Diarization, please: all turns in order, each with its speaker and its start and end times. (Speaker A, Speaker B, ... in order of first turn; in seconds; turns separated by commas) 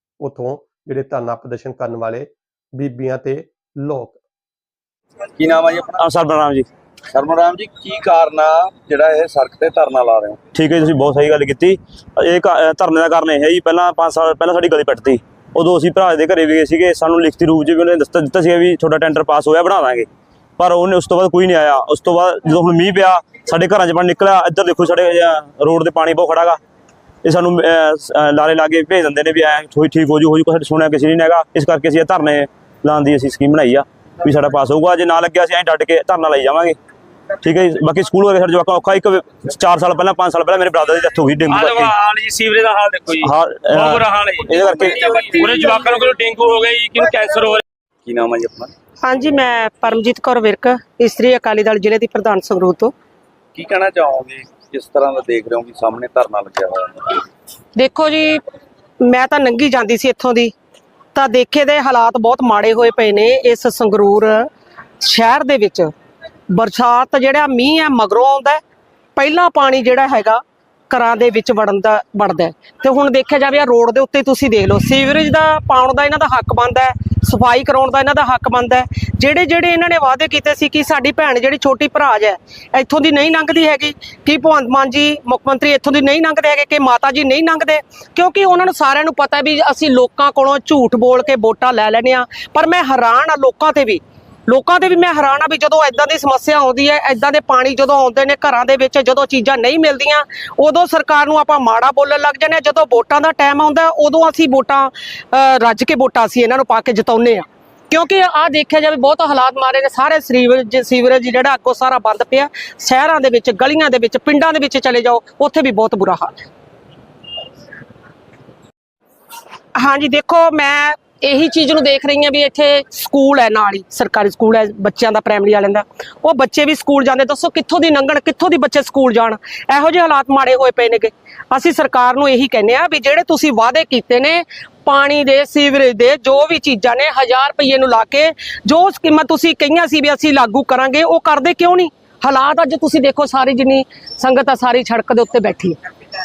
Speaker A: 0.2-4.2, Speaker B: 5.3-6.0, Speaker C: 6.0-6.7, Speaker B: 7.1-10.4, Speaker C: 10.5-26.6, Speaker C: 27.2-36.8, Speaker C: 37.4-41.9, Speaker D: 41.5-47.6, Speaker C: 43.2-45.2, Speaker B: 48.0-48.7, Speaker E: 49.0-52.9, Speaker B: 53.5-57.2, Speaker E: 57.8-58.4, Speaker E: 59.0-60.5, Speaker E: 61.1-64.5, Speaker E: 65.0-65.9, Speaker E: 66.5-68.6, Speaker E: 69.2-116.3, Speaker E: 119.8-145.8